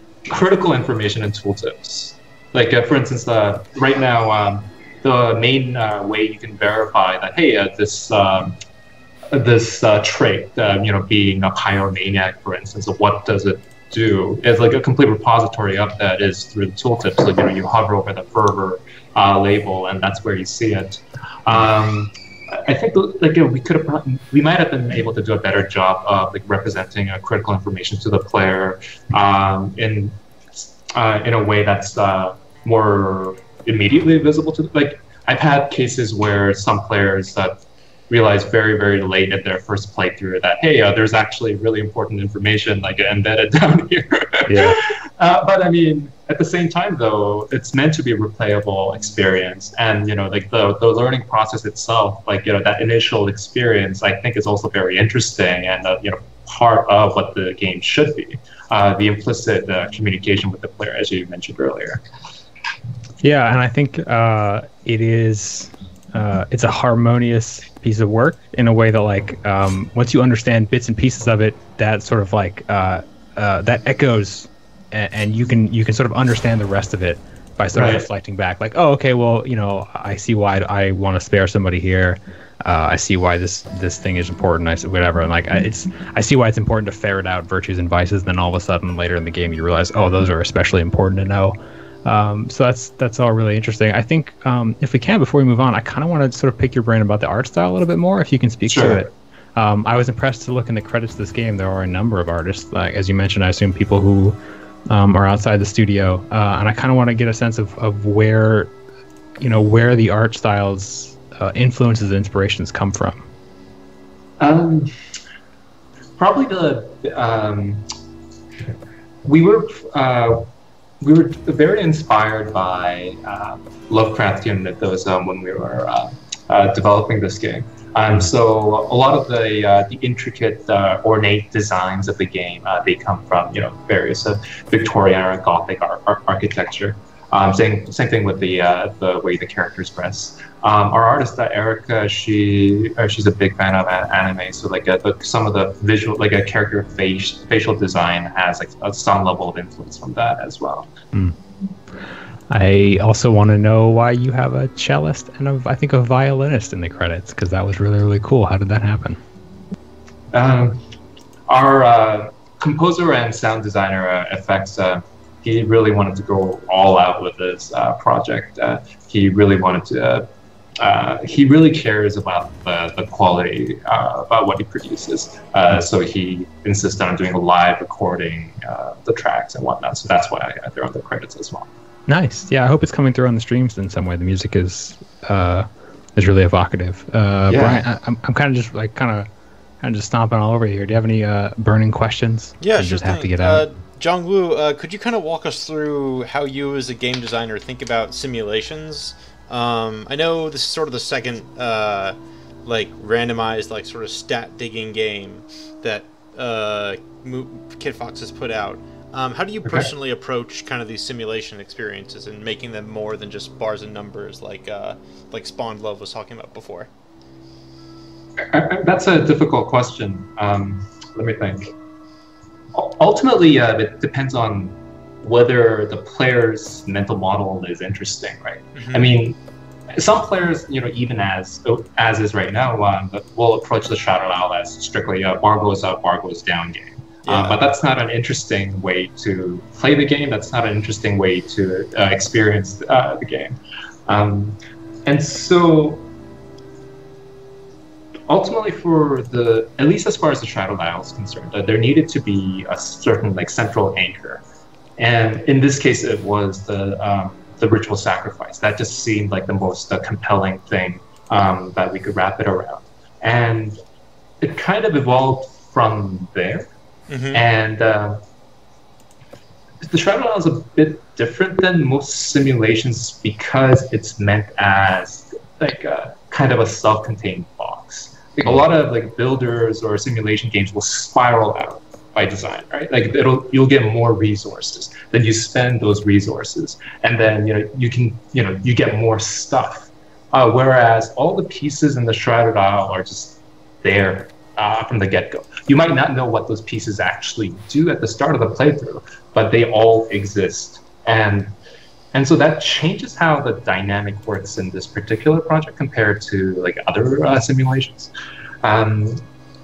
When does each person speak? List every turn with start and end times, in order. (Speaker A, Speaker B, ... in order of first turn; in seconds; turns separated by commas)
Speaker A: 0.3-8.6, Speaker A: 9.3-37.5, Speaker A: 38.1-62.0, Speaker B: 44.5-44.8, Speaker B: 63.2-104.4, Speaker A: 77.7-78.0, Speaker A: 98.7-99.0, Speaker B: 104.9-108.7, Speaker B: 109.4-113.2, Speaker A: 114.4-114.9, Speaker A: 116.2-117.8, Speaker A: 119.2-120.5, Speaker A: 121.0-150.9, Speaker B: 152.5-159.2, Speaker A: 160.3-160.8, Speaker A: 161.5-170.3, Speaker A: 170.8-181.7, Speaker B: 182.1-189.3, Speaker A: 187.5-187.8, Speaker B: 189.8-193.7, Speaker C: 192.6-216.9, Speaker A: 218.4-221.7, Speaker A: 222.7-229.4, Speaker C: 228.8-229.1, Speaker A: 229.9-246.0, Speaker C: 237.2-237.6, Speaker A: 248.3-254.4, Speaker A: 255.0-263.8, Speaker A: 264.4-266.7, Speaker C: 267.1-267.4, Speaker A: 267.3-268.2, Speaker A: 269.8-301.6, Speaker A: 302.1-308.1, Speaker A: 308.6-309.2